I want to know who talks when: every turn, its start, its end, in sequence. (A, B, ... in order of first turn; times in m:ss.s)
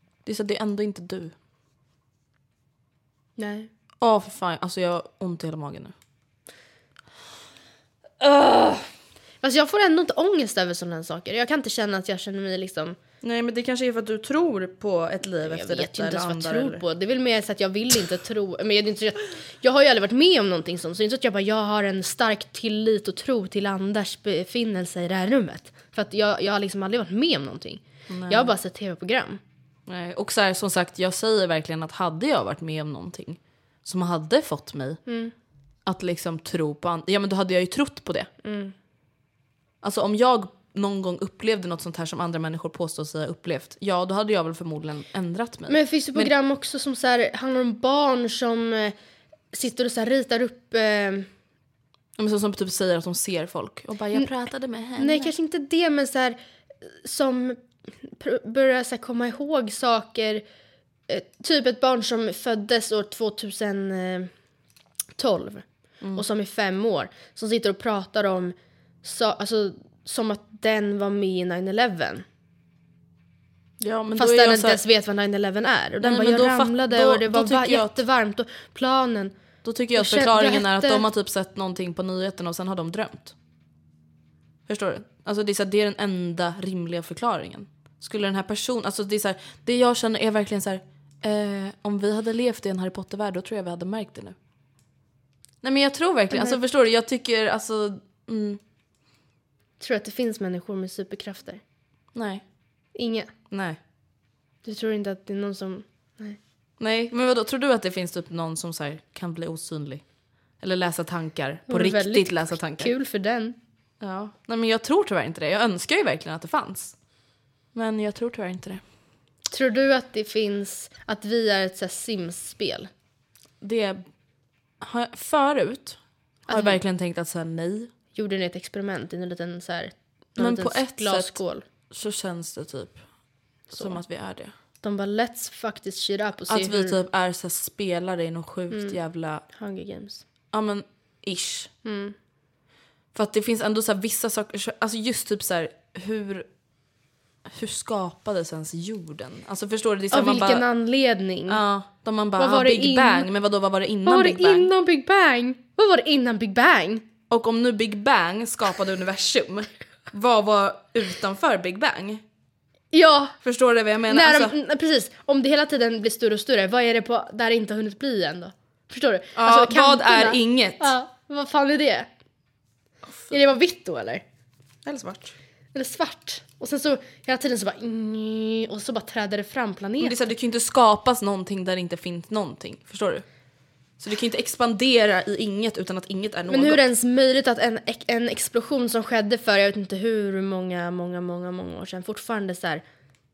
0:00.3-0:01.3 A
0:03.4-0:03.7 B
0:04.0-0:05.9 A
0:08.2-0:08.9 A
0:09.4-0:13.0 B
0:13.2-0:16.8 A
0:15.4-0:29.4 B
0:28.1-0:28.5 A
0:29.9-0:35.0 A
0:35.1-0:35.3 B
0:35.9-0:38.3 A
0:38.4-0:38.7 B
0:39.8-0:46.3 A
0:45.7-0:49.0 B
0:49.5-0:51.3 B
0:52.2-0:55.3 A
0:55.0-0:56.4 B
0:56.9-1:00.4 B
1:01.1-1:04.3 B
1:05.2-1:12.2 B
1:13.8-1:14.8 A
1:14.2-1:19.4 B
1:16.0-1:18.0 A
1:19.6-1:23.3 A
1:20.0-1:21.0 B
1:24.7-1:34.4 A
1:35.6-1:38.6 A
1:36.3-1:36.6 B
1:39.8-1:41.6 B
1:42.1-1:42.4 A
1:43.0-1:43.3 B
1:43.5-1:43.8 A
1:44.6-1:46.4 B
1:46.8-1:50.0 A
1:50.6-1:52.9 A
1:51.7-1:53.6 B
1:54.0-1:56.9 A
1:57.8-1:58.8 A
1:59.5-2:02.9 B
2:03.6-2:04.0 A
2:04.8-2:07.9 A
2:06.5-2:06.8 B
2:08.2-2:11.6 B
2:10.4-2:11.4 A
2:11.9-2:13.0 A
2:13.7-2:14.0 B
2:13.7-2:14.5 A
2:14.8-2:17.0 B
2:16.5-2:19.4 A
2:18.7-2:19.0 B
2:19.5-2:20.2 B
2:20.5-2:21.7 A
2:21.8-2:22.2 B
2:23.1-2:26.5 A
2:27.5-2:30.6 A
2:30.1-2:31.6 B
2:31.5-2:34.7 A
2:32.4-2:33.3 B
2:34.1-2:37.0 B
2:37.3-2:42.2 A
2:42.9-2:43.4 B
2:43.4-2:44.6 A
2:44.1-2:52.1 B
2:49.4-2:50.9 A
2:53.3-2:54.2 B
2:54.8-2:55.4 A
2:55.7-3:00.3 B
3:00.0-3:03.2 A
3:04.0-3:06.8 A
3:06.5-3:12.8 B